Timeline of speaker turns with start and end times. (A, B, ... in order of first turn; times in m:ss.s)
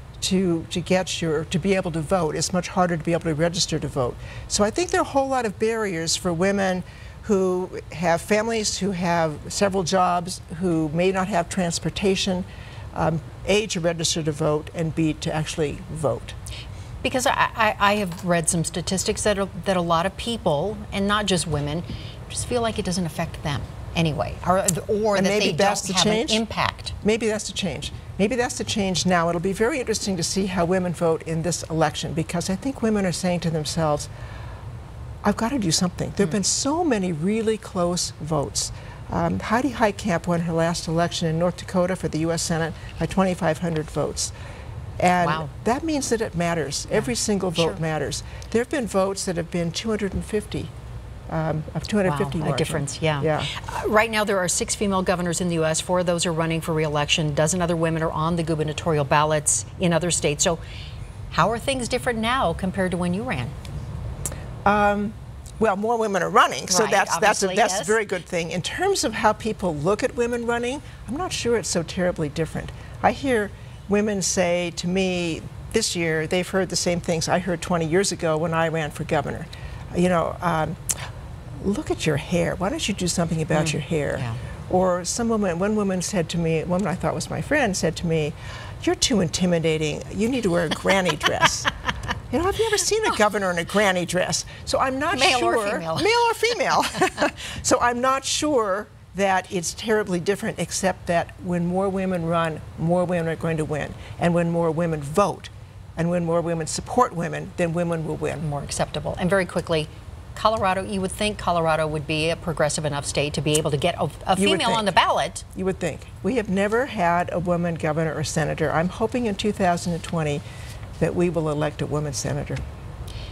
0:00.2-0:16.4 A
0:17.0-0:26.9 B
0:25.1-0:26.4 A
0:27.0-0:34.1 A
0:35.2-0:44.3 A
0:45.0-0:50.7 A
0:45.2-0:45.5 B
0:46.9-0:47.8 B
0:51.3-0:53.5 A
0:52.0-1:00.6 B
1:01.3-1:03.5 B
1:04.6-1:21.0 A
1:06.7-1:08.0 B
1:21.6-1:31.7 A
1:23.5-1:24.4 B
1:32.3-1:48.4 A
1:35.1-1:36.1 B
1:48.4-1:55.4 B
1:54.4-1:54.9 A
1:55.5-2:00.4 A
2:01.0-2:02.6 A